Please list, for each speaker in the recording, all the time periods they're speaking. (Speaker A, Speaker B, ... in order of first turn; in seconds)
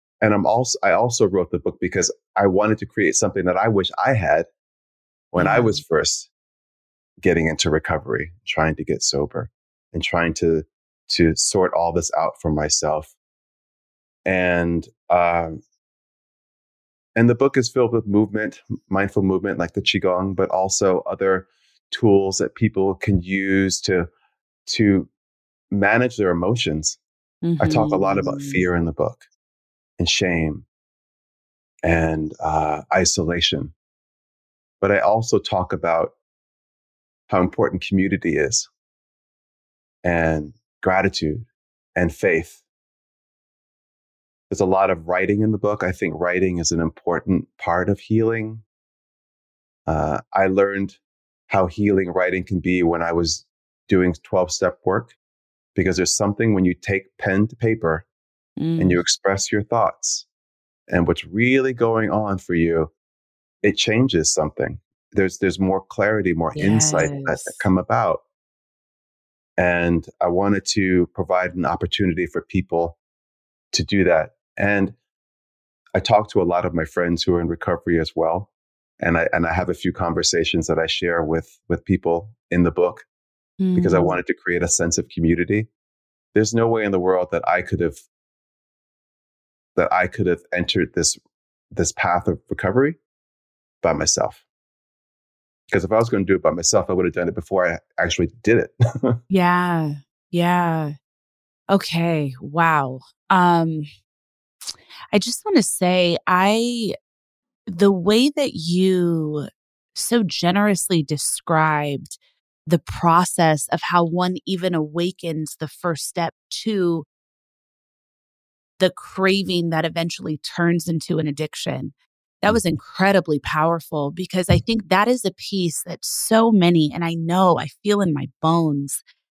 Speaker A: 0.2-4.5, 5.3-6.3, 7.2-13.1, 14.2-15.6, 17.2-24.1, 24.7-25.1, 25.7-27.0, 27.6-29.2, 30.0-30.7, 31.8-33.7, 34.8-36.1, 37.3-38.7, 40.0-42.6, 44.5-48.6, 49.9-55.1, 55.8-58.0, 58.8-60.3, 60.9-62.9, 63.6-68.2, 69.6-73.0, 73.7-75.0, 76.0-83.0, 83.8-85.7, 86.3-88.0, 89.8-91.2, 91.7-93.0, 93.8-94.4, 95.7-99.2
Speaker B: 5.4-5.8, 27.4-28.6, 58.6-59.0, 66.5-67.6, 83.6-84.2, 99.3-101.0, 101.7-103.9, 104.7-107.0, 107.7-117.1, 118.8-129.0